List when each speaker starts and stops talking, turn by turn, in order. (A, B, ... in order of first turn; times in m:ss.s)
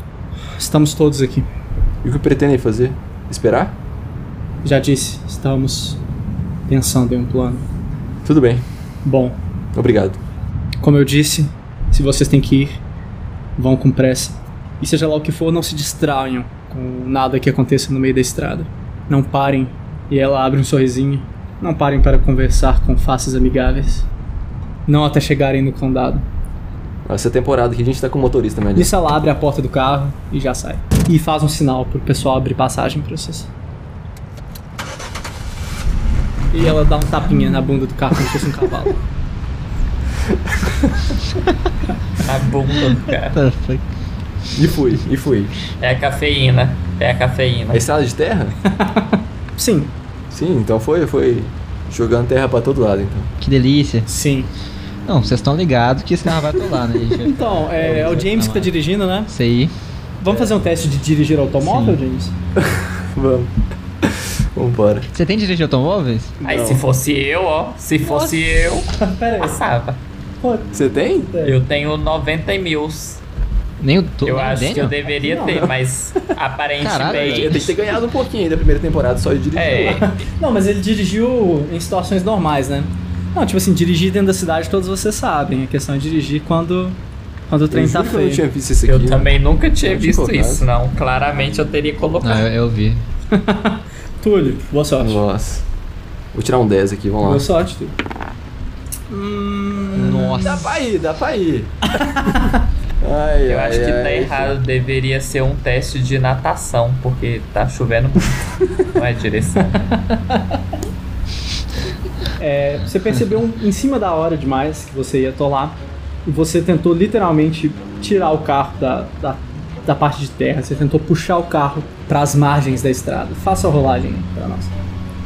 0:00.6-0:01.5 A
0:02.0-0:03.8 B
0:04.6-0:06.0 A
0:06.7-0:07.6 A
0:08.2-0:08.6 B
0:09.0-0:09.4 A
0:09.8-0:10.2 B
0:10.8-0:12.8 A
0:13.6-0:24.1 A
0:24.9-0:26.3 A
0:27.1-0:28.9 B
0:28.8-0:33.5 A
0:36.5-0:39.0 A
0:40.9-0:41.1 B
0:42.2-0:43.4 C
0:43.3-0:43.9 D
0:44.6-0:45.6 B
0:45.8-0:47.8 C
0:47.7-0:48.6 B
0:48.7-0:49.9 A
0:50.3-0:53.3 B
0:53.4-0:54.1 D
0:54.1-0:54.5 A
0:55.1-0:58.7 D
0:57.2-0:59.3 A
0:59.3-0:59.7 D
1:00.2-1:02.3 A
1:01.6-1:02.0 D
1:02.6-1:05.1 B
1:05.1-1:06.4 D
1:06.4-1:06.8 B
1:06.4-1:10.0 C
1:09.0-1:09.6 A
1:10.4-1:11.6 A
1:10.7-1:11.3 B
1:11.4-1:13.2 C
1:13.8-1:15.0 D
1:14.2-1:17.7 C
1:15.1-1:15.7 A
1:16.8-1:17.7 D
1:17.0-1:19.9 B
1:19.6-1:20.1 C
1:19.8-1:28.4 A
1:27.7-1:29.3 B
1:28.9-1:32.5 C
1:29.8-1:30.6 B
1:32.2-1:33.0 D
1:33.3-1:35.2 A
1:35.0-1:35.7 B
1:36.3-1:37.5 B
1:37.2-1:38.0 A
1:39.1-1:40.6 A
1:40.0-1:40.6 D
1:40.4-1:41.9 B
1:42.0-1:42.6 A
1:43.0-1:44.6 B
1:43.5-1:49.9 C
1:50.0-1:50.4 A
1:52.4-2:04.7 A